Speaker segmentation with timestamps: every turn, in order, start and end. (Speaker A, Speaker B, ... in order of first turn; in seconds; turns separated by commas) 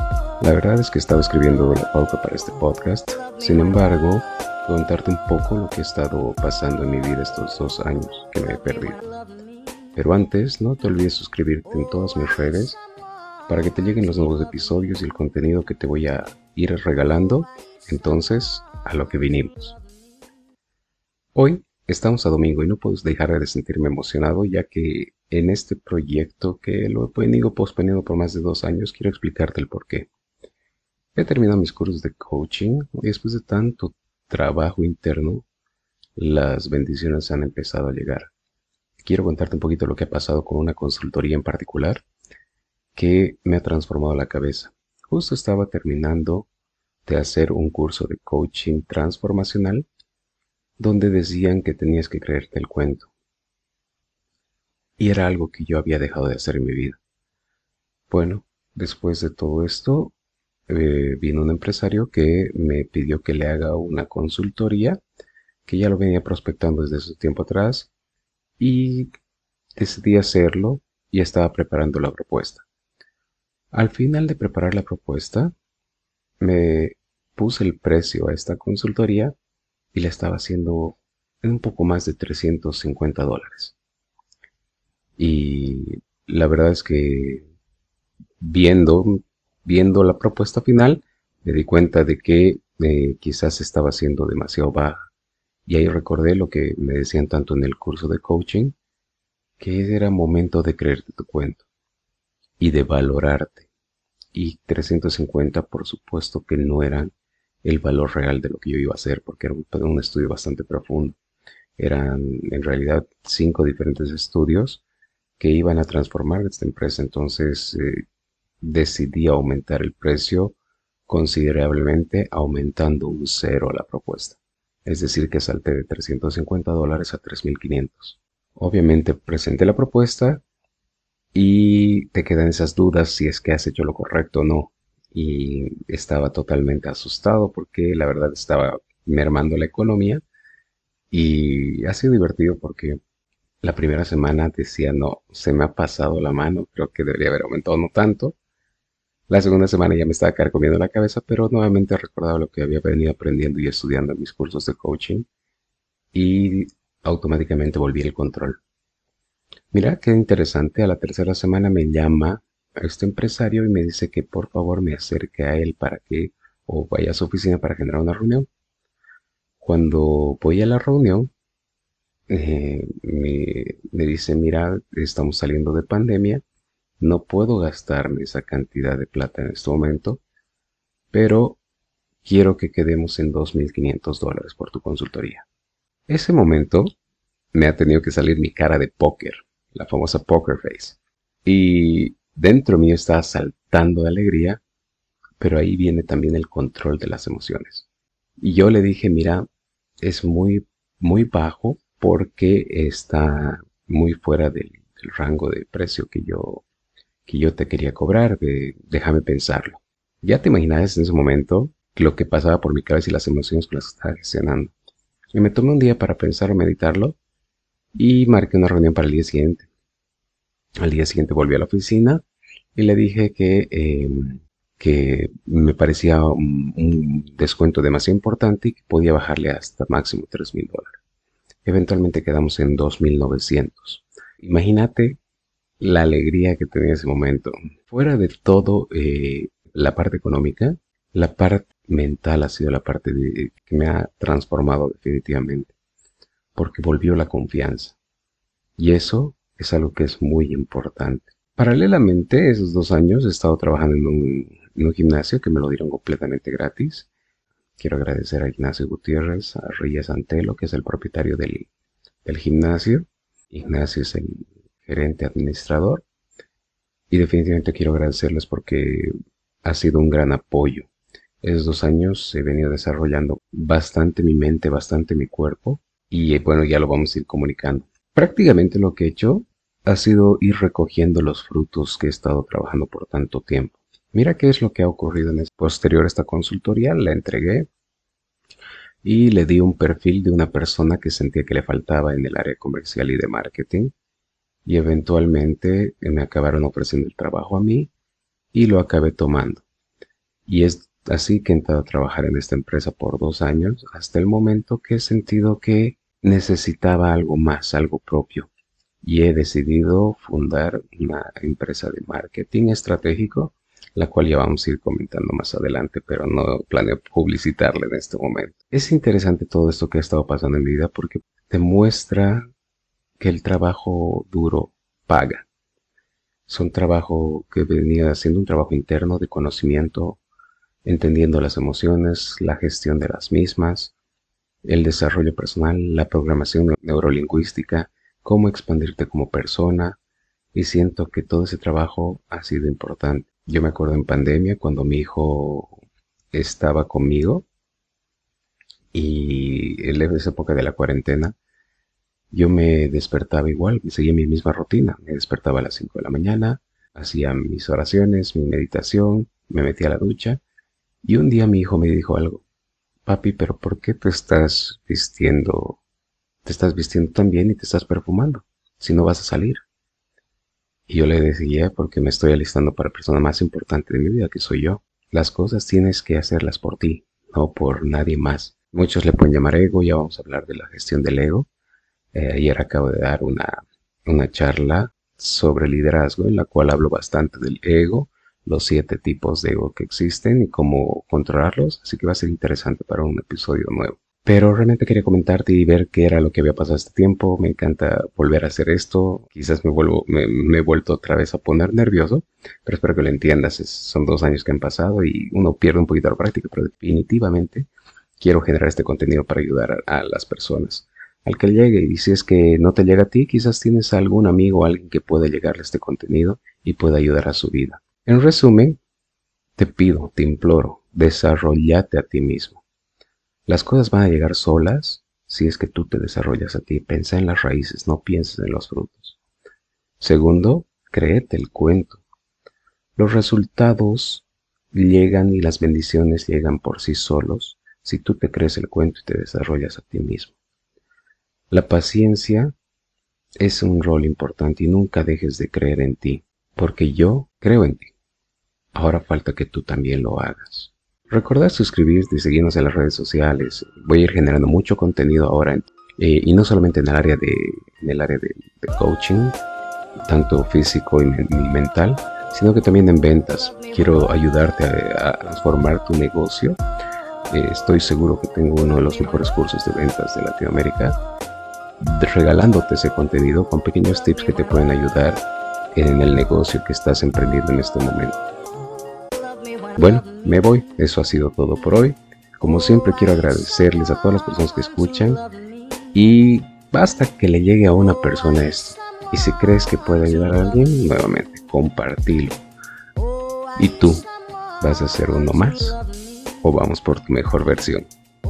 Speaker A: 0.4-9.0, Speaker A: 9.9-12.8, Speaker A: 13.5-19.8, Speaker A: 21.3-30.1, Speaker A: 31.1-35.4, Speaker A: 36.2-38.3, Speaker A: 39.0-42.0, Speaker A: 42.9-46.5, Speaker A: 47.0-49.9, Speaker A: 50.8-53.1, Speaker A: 55.0-57.0, Speaker A: 58.1-60.1, Speaker A: 60.7-65.0, Speaker A: 65.6-67.9, Speaker A: 68.6-69.1, Speaker A: 69.8-72.6, Speaker A: 73.7-75.5, Speaker A: 76.4-79.3, Speaker A: 79.9-83.8, Speaker A: 85.2-87.4, Speaker A: 88.4-95.0, Speaker A: 95.7-98.7, Speaker A: 99.6-101.6, Speaker A: 102.6-103.7, Speaker A: 104.3-107.1, Speaker A: 107.6-111.2, Speaker A: 111.8-114.8, Speaker A: 115.4-118.0, Speaker A: 118.6-120.5, Speaker A: 121.1-130.4, Speaker A: 131.3-140.2, Speaker A: 141.1-143.0, Speaker A: 143.6-148.3, Speaker A: 149.3-155.3, Speaker A: 156.1-158.6, Speaker A: 159.7-168.5, Speaker A: 169.6-171.3, Speaker A: 172.3-176.4, Speaker A: 177.0-180.2, Speaker A: 181.1-181.6, Speaker A: 182.2-185.4, Speaker A: 186.1-186.9, Speaker A: 187.5-194.6, Speaker A: 195.4-197.8, Speaker A: 198.4-199.4, Speaker A: 200.0-206.6, Speaker A: 207.2-214.7, Speaker A: 215.3-217.2, Speaker A: 217.9-219.7, Speaker A: 220.8-222.2, Speaker A: 222.8-231.0, Speaker A: 231.6-235.2, Speaker A: 235.8-245.7, Speaker A: 246.5-247.9, Speaker A: 248.8-257.1, Speaker A: 257.8-261.7, Speaker A: 262.2-266.0, Speaker A: 267.1-269.1, Speaker A: 269.6-270.9, Speaker A: 271.4-287.7, Speaker A: 289.0-293.9, Speaker A: 294.6-297.9, Speaker A: 298.5-299.6, Speaker A: 300.5-308.5, Speaker A: 309.0-322.4, Speaker A: 323.2-325.4, Speaker A: 326.5-330.2, Speaker A: 330.8-333.9, Speaker A: 334.6-340.0, Speaker A: 340.5-345.8, Speaker A: 346.3-347.4, Speaker A: 348.9-351.4, Speaker A: 352.3-360.4, Speaker A: 361.0-362.4, Speaker A: 363.1-365.8, Speaker A: 366.4-369.6, Speaker A: 370.9-381.5, Speaker A: 382.1-407.7, Speaker A: 408.2-418.8, Speaker A: 419.6-422.6, Speaker A: 423.5-429.2, Speaker A: 430.0-432.0, Speaker A: 433.0-440.3, Speaker A: 441.5-442.5, Speaker A: 443.4-447.9, Speaker A: 448.7-459.4, Speaker A: 460.1-466.6, Speaker A: 467.3-470.9, Speaker A: 471.8-475.2, Speaker A: 475.7-478.2, Speaker A: 479.8-485.2, Speaker A: 485.9-492.4, Speaker A: 493.6-494.1, Speaker A: 494.6-495.8, Speaker A: 496.4-497.9